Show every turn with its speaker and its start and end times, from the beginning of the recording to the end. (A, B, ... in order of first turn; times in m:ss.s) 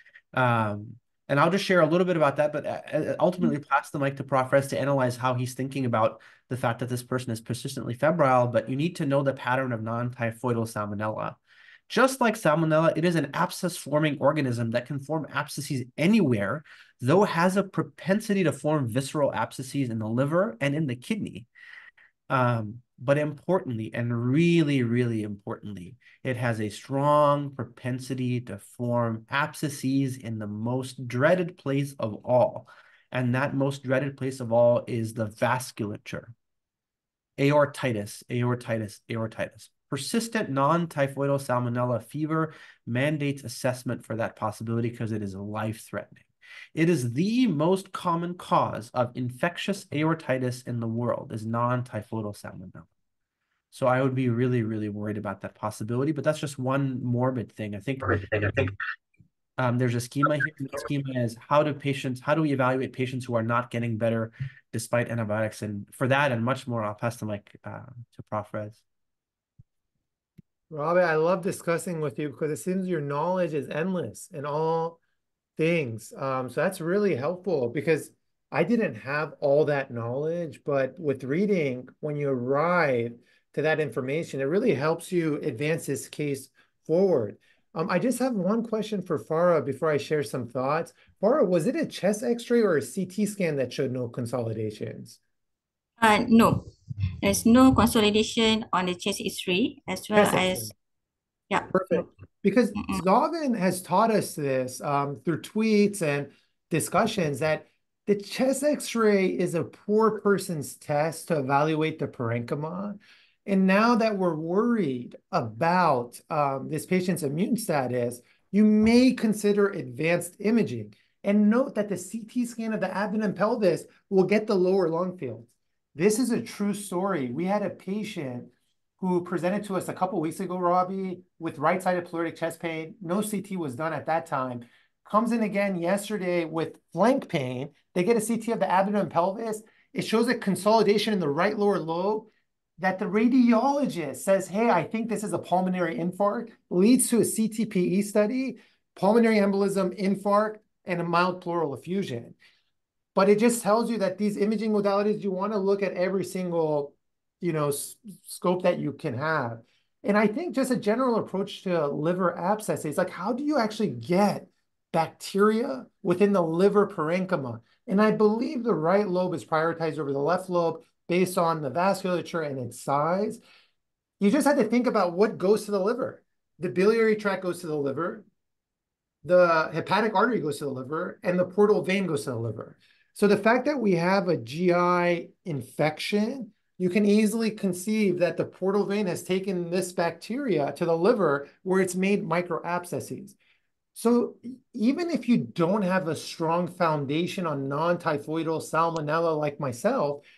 0:00.3-0:11.4 A
0:11.9-0:21.5 A
0:22.3-0:36.3 A
0:37.4-0:52.9 A
0:53.7-0:58.7 A
0:59.6-1:08.8 A
1:10.7-1:15.0 B
1:15.6-1:35.2 B
1:36.0-1:36.7 C
1:37.2-1:40.7 C
1:40.1-1:40.7 B
1:41.5-1:42.1 C
1:41.7-2:22.3 B
1:42.8-1:43.0 C
2:22.8-2:32.3 B
2:33.1-2:53.4 B
2:54.2-2:58.2 B
2:59.2-3:13.4 B
3:13.9-3:20.2 B